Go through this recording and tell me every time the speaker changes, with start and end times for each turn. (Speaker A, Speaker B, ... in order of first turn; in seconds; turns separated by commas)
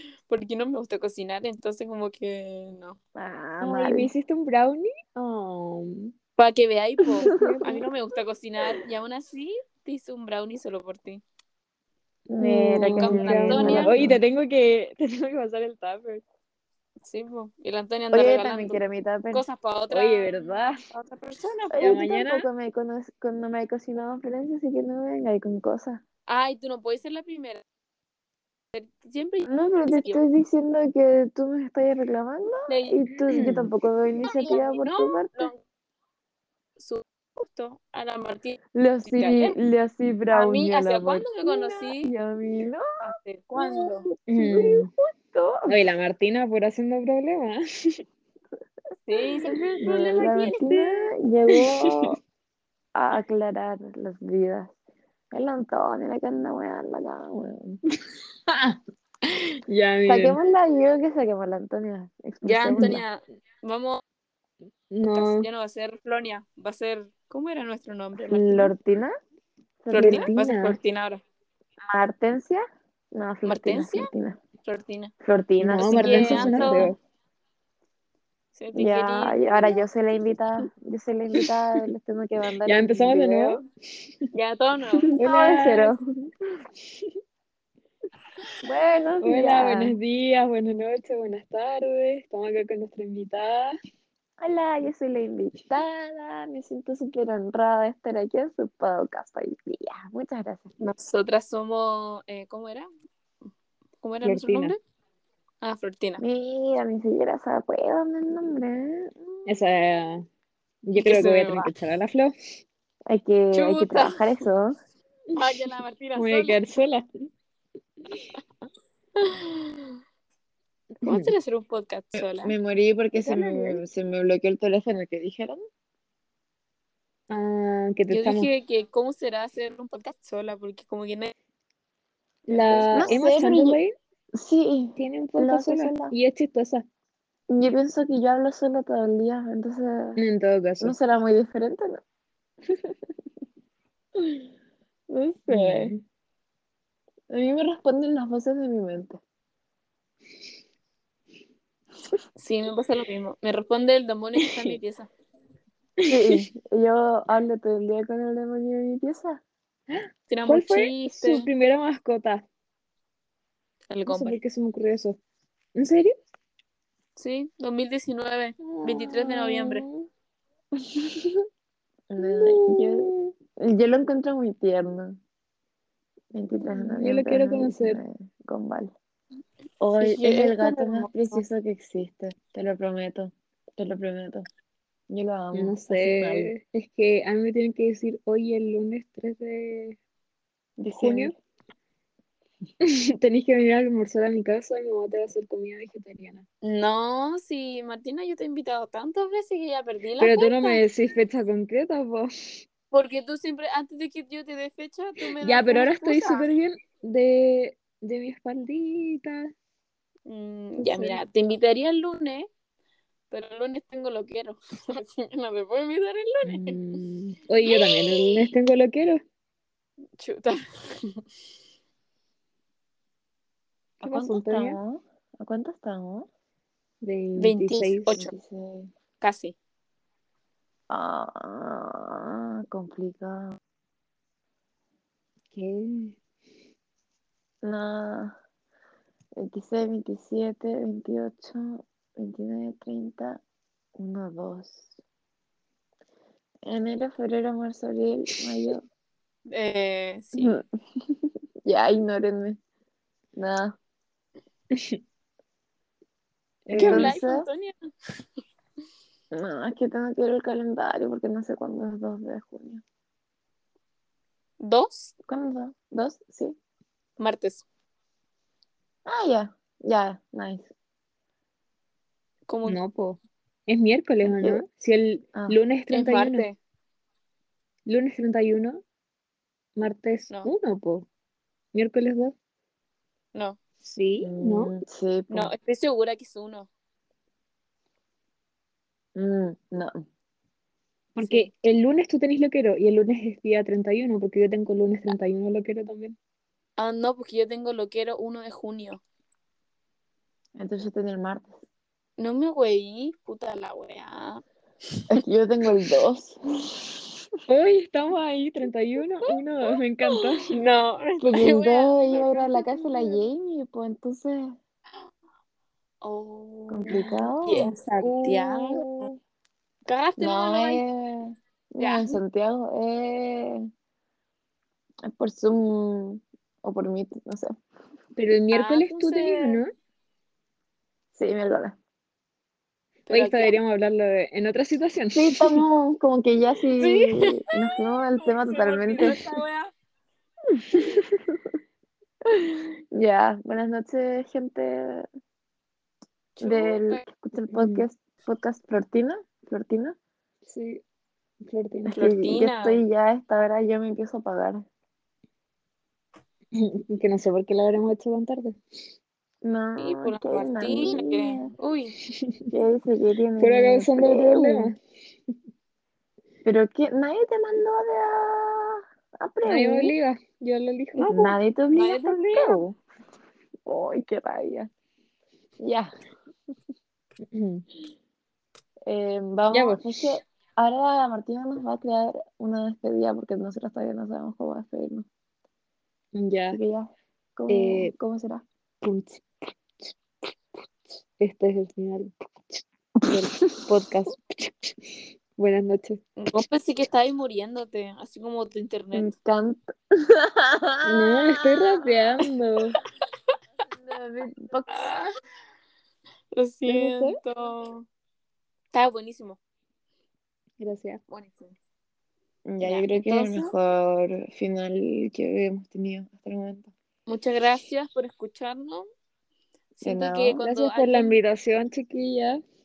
Speaker A: 0.3-3.0, Speaker B: 3.1-4.1, Speaker C: 3.6-6.1, Speaker A: 6.4-11.2, Speaker C: 7.2-7.8, Speaker B: 7.2-7.6, Speaker B: 12.3-14.2, Speaker C: 12.4-16.2, Speaker A: 12.8-14.1, Speaker A: 17.0-18.8, Speaker B: 18.1-19.4, Speaker A: 19.3-21.8, Speaker C: 19.9-20.8, Speaker B: 21.7-26.0, Speaker C: 21.8-22.5, Speaker A: 26.3-27.6, Speaker A: 28.7-30.2, Speaker B: 29.5-35.5, Speaker A: 32.7-33.6, Speaker A: 34.2-35.6, Speaker A: 36.8-39.6, Speaker B: 38.7-45.8, Speaker A: 40.3-42.1, Speaker A: 43.0-44.1, Speaker C: 44.3-44.9, Speaker C: 45.7-48.0, Speaker A: 49.0-50.8, Speaker C: 49.8-50.8, Speaker B: 49.8-52.2, Speaker C: 51.5-52.1, Speaker B: 52.9-54.7, Speaker B: 55.3-57.8, Speaker C: 58.5-60.4, Speaker B: 60.0-63.0, Speaker A: 62.4-64.0, Speaker C: 62.7-63.0, Speaker C: 64.9-65.5, Speaker A: 65.1-68.7, Speaker B: 68.3-69.1, Speaker B: 69.8-70.3, Speaker C: 69.9-70.8, Speaker A: 69.9-71.2, Speaker B: 71.8-74.4, Speaker A: 73.4-74.1, Speaker A: 74.6-75.1, Speaker B: 75.2-76.9, Speaker C: 75.6-77.0, Speaker A: 75.8-77.0, Speaker A: 78.5-79.8, Speaker B: 78.7-83.6, Speaker C: 82.6-84.1, Speaker A: 84.3-85.2, Speaker B: 85.1-86.0, Speaker C: 85.1-86.0, Speaker B: 88.6-90.0, Speaker C: 89.2-93.8, Speaker B: 94.4-100.7, Speaker A: 100.8-102.9, Speaker A: 104.0-104.8, Speaker C: 104.2-104.7, Speaker A: 105.6-106.2, Speaker B: 106.2-109.5, Speaker C: 109.5-110.2, Speaker C: 110.8-112.3, Speaker A: 111.0-111.7, Speaker B: 113.1-114.7, Speaker A: 113.5-114.4, Speaker A: 115.3-116.6, Speaker C: 116.1-117.0, Speaker A: 119.2-119.9, Speaker C: 121.0-121.3, Speaker A: 121.0-122.5, Speaker B: 122.4-125.6, Speaker C: 123.2-123.8, Speaker C: 127.3-128.5, Speaker A: 128.1-131.3, Speaker A: 132.5-133.2, Speaker C: 132.5-133.9, Speaker B: 132.9-133.8, Speaker B: 134.3-136.1, Speaker C: 135.0-136.8, Speaker B: 137.5-140.2, Speaker C: 140.2-140.9, Speaker B: 140.8-142.0, Speaker B: 142.7-142.9, Speaker B: 144.2-144.4, Speaker B: 145.1-146.0, Speaker C: 145.5-146.0, Speaker B: 147.3-149.2, Speaker A: 152.4-155.1, Speaker C: 154.5-154.8, Speaker C: 156.0-156.4, Speaker B: 156.1-159.4, Speaker C: 159.9-162.4, Speaker A: 160.3-161.5, Speaker A: 163.9-164.4, Speaker C: 164.1-165.2, Speaker C: 165.8-166.1, Speaker A: 167.2-169.8, Speaker C: 168.6-170.1, Speaker B: 172.1-175.2, Speaker C: 172.2-173.3, Speaker B: 176.3-178.9, Speaker C: 176.7-178.0, Speaker B: 179.8-184.5, Speaker A: 180.0-181.4, Speaker B: 185.1-186.5, Speaker C: 185.5-190.0, Speaker B: 190.8-191.3, Speaker C: 190.9-191.3, Speaker C: 192.8-196.4, Speaker A: 196.6-200.8, Speaker C: 200.2-202.3, Speaker A: 202.9-206.5, Speaker C: 205.4-209.5, Speaker A: 210.3-212.5, Speaker C: 210.8-211.2, Speaker A: 213.3-216.8, Speaker C: 216.5-219.2, Speaker A: 217.6-218.5, Speaker A: 220.2-221.2, Speaker B: 224.0-226.3, Speaker C: 224.0-224.8, Speaker C: 227.0-228.2, Speaker A: 227.4-228.3, Speaker B: 228.1-228.9, Speaker A: 229.2-229.5, Speaker B: 230.9-233.6, Speaker C: 235.5-236.2, Speaker B: 237.6-238.3, Speaker B: 239.4-243.4, Speaker B: 244.0-244.8, Speaker B: 246.6-248.8, Speaker A: 249.5-250.5, Speaker B: 250.3-252.6, Speaker B: 253.3-253.8, Speaker C: 254.7-255.0, Speaker C: 256.7-257.1, Speaker B: 256.7-257.4, Speaker A: 256.8-257.7, Speaker B: 259.3-262.8, Speaker A: 264.6-265.1, Speaker B: 265.3-266.6, Speaker A: 267.2-267.6, Speaker B: 269.1-270.7, Speaker A: 272.5-272.8, Speaker C: 272.6-276.5, Speaker B: 274.2-274.6, Speaker A: 275.9-276.6, Speaker C: 277.9-278.8, Speaker C: 279.8-281.1, Speaker C: 281.7-282.3, Speaker C: 283.8-284.8, Speaker B: 284.2-285.5, Speaker A: 285.3-286.7, Speaker B: 289.1-290.0, Speaker C: 291.1-296.1, Speaker A: 291.2-291.5, Speaker A: 296.8-299.0, Speaker B: 300.6-301.6, Speaker A: 302.2-304.4, Speaker B: 305.1-306.9, Speaker C: 307.5-310.6, Speaker A: 310.5-313.2, Speaker B: 311.2-314.6, Speaker A: 316.0-319.1, Speaker B: 316.7-317.8, Speaker C: 316.9-318.8, Speaker A: 319.9-320.8, Speaker B: 320.2-323.7, Speaker A: 321.8-322.2, Speaker B: 325.1-327.5, Speaker C: 328.1-329.7, Speaker A: 328.5-329.6, Speaker B: 331.1-331.8, Speaker A: 333.1-333.6, Speaker C: 333.1-335.6, Speaker B: 335.1-339.3, Speaker A: 336.8-339.7, Speaker B: 340.5-341.5, Speaker B: 342.2-345.1, Speaker A: 346.4-347.0, Speaker B: 346.4-350.0, Speaker C: 347.5-347.9, Speaker C: 350.4-350.8, Speaker C: 351.5-351.9, Speaker B: 351.9-354.6, Speaker A: 351.9-352.8, Speaker C: 356.5-358.6, Speaker B: 359.4-361.5, Speaker A: 359.8-361.9, Speaker C: 362.1-362.5, Speaker B: 362.5-364.7, Speaker C: 363.4-364.8, Speaker B: 366.4-369.9, Speaker C: 369.4-371.1, Speaker A: 370.9-372.6, Speaker B: 371.1-372.8, Speaker B: 373.6-374.7, Speaker B: 375.6-375.9, Speaker C: 377.3-377.6, Speaker B: 378.9-385.1, Speaker C: 379.5-380.1, Speaker C: 386.1-386.6, Speaker B: 386.5-388.4, Speaker C: 387.5-387.9, Speaker C: 388.8-389.2, Speaker C: 391.2-396.0, Speaker A: 396.2-399.1, Speaker B: 398.9-401.8, Speaker C: 400.8-402.8, Speaker B: 403.7-405.0, Speaker A: 404.7-405.1, Speaker A: 406.3-407.9, Speaker C: 406.6-407.2, Speaker A: 408.7-409.4, Speaker C: 410.6-411.0, Speaker A: 411.1-411.5, Speaker B: 412.4-416.7, Speaker A: 412.6-413.5, Speaker A: 417.1-418.9, Speaker A: 419.8-421.1, Speaker B: 419.8-420.4, Speaker C: 420.4-422.4